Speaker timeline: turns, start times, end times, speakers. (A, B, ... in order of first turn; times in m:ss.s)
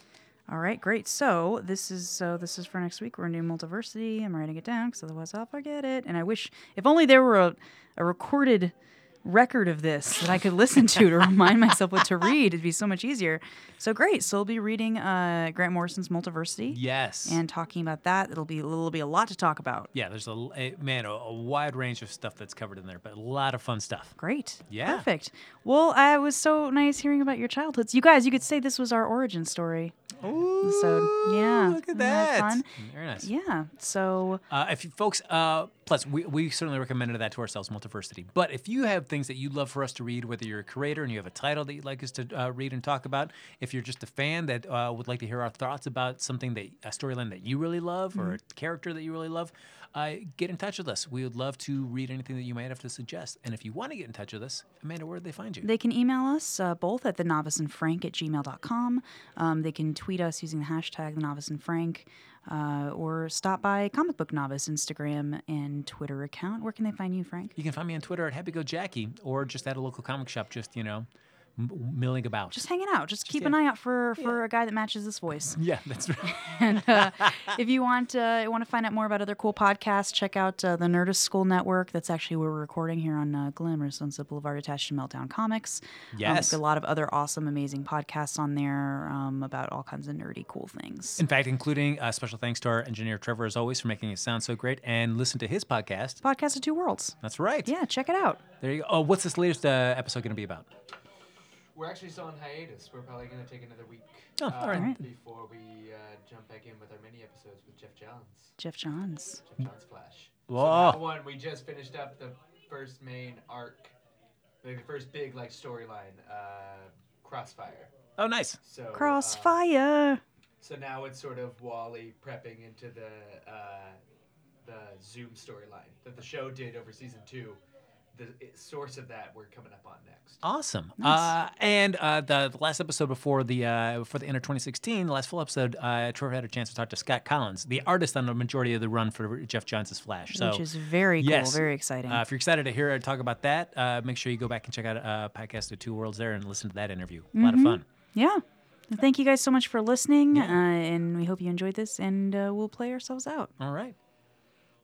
0:00.5-0:19.9 A
0:16.7-0:17.4 B
0:19.9-0:24.1 B
0:24.2-0:30.0 A
0:24.7-0:25.0 B
0:30.2-0:33.3 B
0:30.6-0:34.4 A
0:34.5-0:55.7 B
0:55.6-1:07.5 A
1:07.6-1:12.7 B
1:12.5-1:15.6 A
1:13.2-1:13.6 B
1:15.6-1:17.6 B
1:16.2-1:31.2 A
1:26.1-1:26.6 B
1:31.2-1:36.2 B
1:36.2-1:38.4 A
1:37.2-1:37.7 B
1:38.6-1:40.7 B
1:41.7-1:48.5 C
1:44.4-1:44.9 B
1:44.7-1:45.0 A
1:48.6-1:49.4 A
1:49.4-1:53.9 C
1:50.5-1:51.0 B
1:54.6-1:57.9 C
1:58.2-1:58.6 B
1:58.6-1:59.6 C
1:58.9-2:00.2 A
2:00.6-2:04.0 C
2:04.6-2:07.6 C
2:08.1-2:10.4 C
2:10.4-2:20.7 B
2:11.0-2:11.3 A
2:20.3-2:22.2 A
2:21.2-2:27.8 B
2:27.3-2:33.5 A
2:30.3-2:30.6 B
2:33.6-2:34.0 B